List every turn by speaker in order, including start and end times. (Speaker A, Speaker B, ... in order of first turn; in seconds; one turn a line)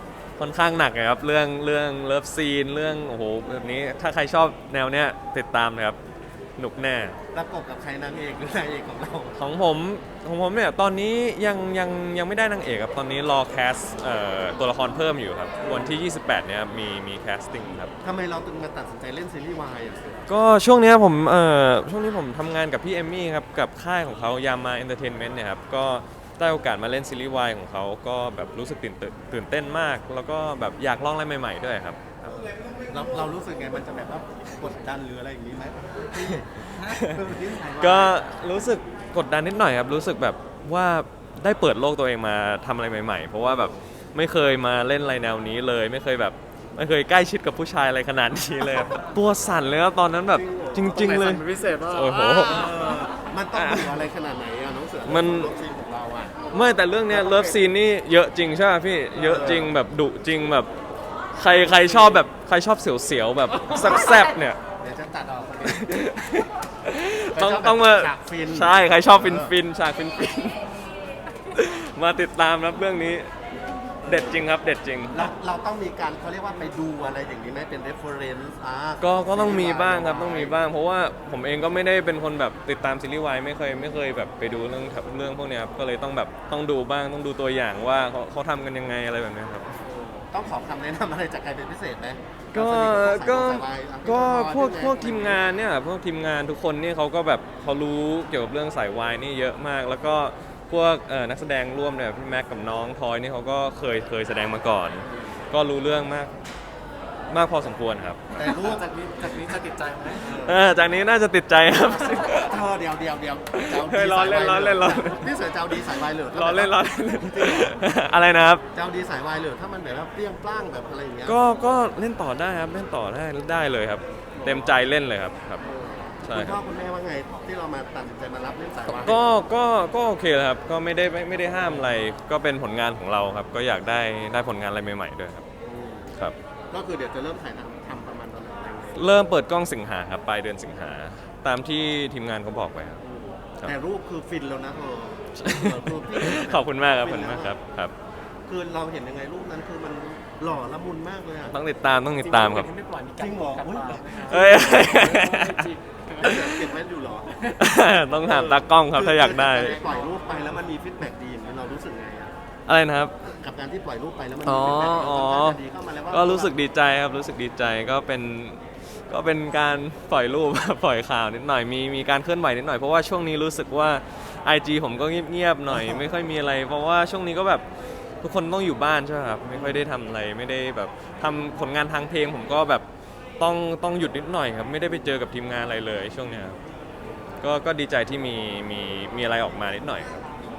Speaker A: 0.4-6.0
Speaker A: 6.6-7.2
Speaker B: 7.3-9.4
Speaker A: 9.4-17.9
Speaker B: 15.7-16.0
Speaker B: 18.0-20.3
Speaker A: 20.3-32.2
Speaker B: 32.2-38.2
Speaker A: 36.2-37.2
Speaker A: 37.8-52.8
Speaker B: 50.3-51.0
Speaker C: 50.9-52.7
Speaker B: 52.4-56.4
Speaker A: 53.5-54.0
Speaker A: 55.0-55.5
Speaker A: 56.5-60.7
Speaker B: 57.1-57.6
Speaker B: 59.2-59.7
Speaker A: 61.3-64.6
Speaker B: 61.6-62.2
Speaker B: 64.8-65.9
Speaker A: 65.7-70.6
Speaker B: 67.3-69.5
Speaker A: 71.5-73.3
Speaker A: 74.0-75.3
Speaker B: 75.1-80.6
Speaker A: 79.0-89.7
Speaker B: 89.8-95.4
Speaker A: 92.5-106.3
Speaker A: 107.3-108.2
Speaker B: 108.3-108.8
Speaker C: 108.4-110.3
Speaker B: 110.2-110.6
Speaker A: 110.3-112.6
Speaker B: 112.2-117.8
Speaker A: 113.5-115.3
Speaker A: 116.3-118.6
Speaker B: 118.7-121.4
Speaker A: 121.2-125.6
Speaker B: 124.3-124.8
Speaker B: 125.6-129.2
Speaker A: 126.2-126.6
Speaker A: 128.9-135.4
Speaker B: 135.6-136.1
Speaker B: 136.7-139.2
Speaker A: 139.0-143.0
Speaker B: 143.0-147.6
Speaker A: 145.4-147.9
Speaker B: 148.5-151.6
Speaker A: 151.5-152.7
Speaker C: 152.2-156.5
Speaker B: 153.2-155.2
Speaker A: 154.2-155.7
Speaker B: 156.2-157.6
Speaker A: 156.2-156.5
Speaker A: 157.6-159.8
Speaker B: 158.2-162.3
Speaker C: 159.6-160.3
Speaker A: 162.7-163.2
Speaker B: 163.2-166.5
Speaker A: 164.4-177.6
Speaker B: 175.7-176.0
Speaker A: 178.2-182.9
Speaker B: 179.5-179.8
Speaker A: 183.4-186.6
Speaker A: 187.4-190.3